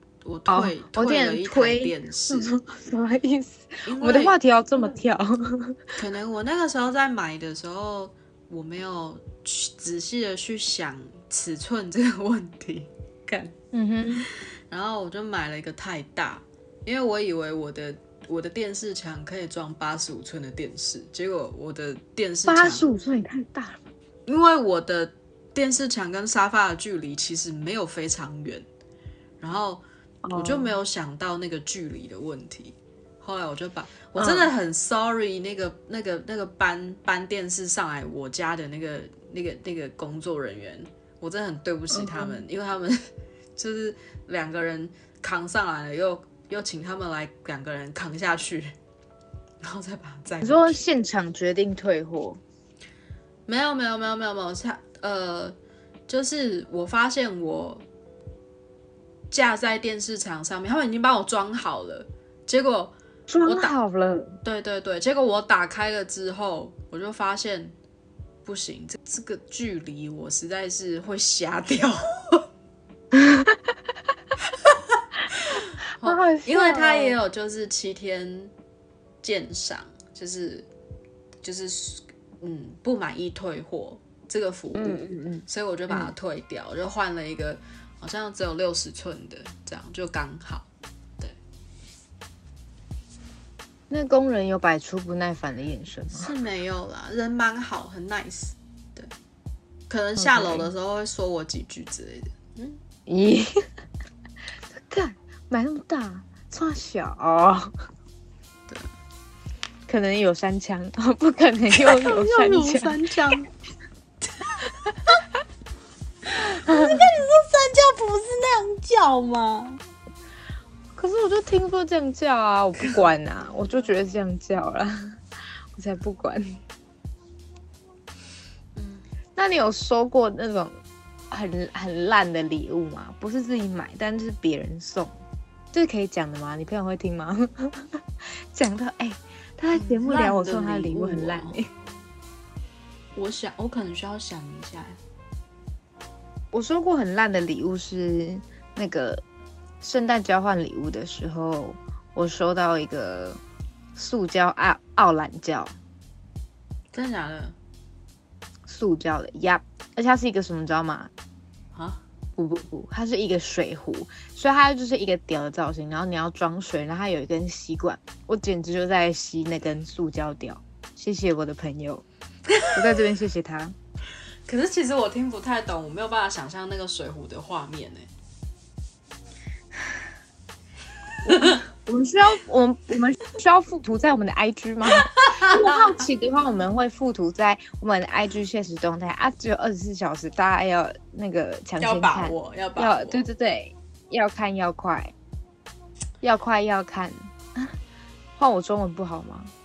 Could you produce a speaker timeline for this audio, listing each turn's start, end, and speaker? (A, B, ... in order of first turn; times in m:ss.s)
0:00.2-0:02.5 A
0:00.5-0:06.0 B
0:03.8-0:04.3 A
0:06.0-0:13.5 A
0:13.7-0:14.2 B
0:14.2-0:22.9 A
0:22.5-0:23.8 B
0:24.2-0:28.6 A
0:29.4-0:29.8 A
0:30.2-0:30.7 B
0:30.3-0:48.7 A
0:34.2-0:34.5 B
0:41.9-0:42.4 B
0:49.6-0:50.8 A
0:50.4-0:52.4 B
0:53.5-0:55.6 A
0:56.1-0:57.8 A
0:59.3-1:02.9 A
1:03.3-1:04.4 B
1:03.4-1:03.7 A
1:04.4-1:07.8 A
1:08.4-1:12.4 A
1:13.1-1:13.6 B
1:14.5-1:18.5 A
1:16.0-1:17.2 B
1:19.2-1:20.7 A
1:21.4-1:30.7 A
1:24.7-1:26.1 B
1:33.9-1:36.3 B
1:36.1-1:39.1 A
1:39.9-1:42.8 A
1:40.2-1:40.7 B
1:43.1-1:43.6 B
1:44.7-1:47.7 B
1:49.9-1:53.0 B
1:51.7-1:53.5 A
1:54.2-1:55.2 A
1:56.3-1:59.8 A
1:56.5-1:57.0 B
2:01.0-2:05.2 B
2:05.7-2:06.6 B
2:08.8-2:09.0 A
2:09.4-2:10.7 B
2:11.3-2:15.1 B
2:15.7-2:21.7 B
2:19.7-2:21.6 A
2:23.1-2:25.0 A
2:26.5-2:29.2 B
2:29.8-2:33.4 B
2:33.9-2:35.7 B
2:36.9-2:37.6 A
2:38.7-2:41.1 B
2:41.7-2:42.0 A
2:42.4-2:52.0 B
2:52.5-2:52.8 A
2:52.7-2:53.7 B
2:54.4-2:58.1 A
3:01.2-3:01.6 A
3:01.2-3:15.1 B
3:04.9-3:06.0 A
3:11.8-3:13.2 A
3:16.2-3:17.7 B
3:18.4-3:19.5 B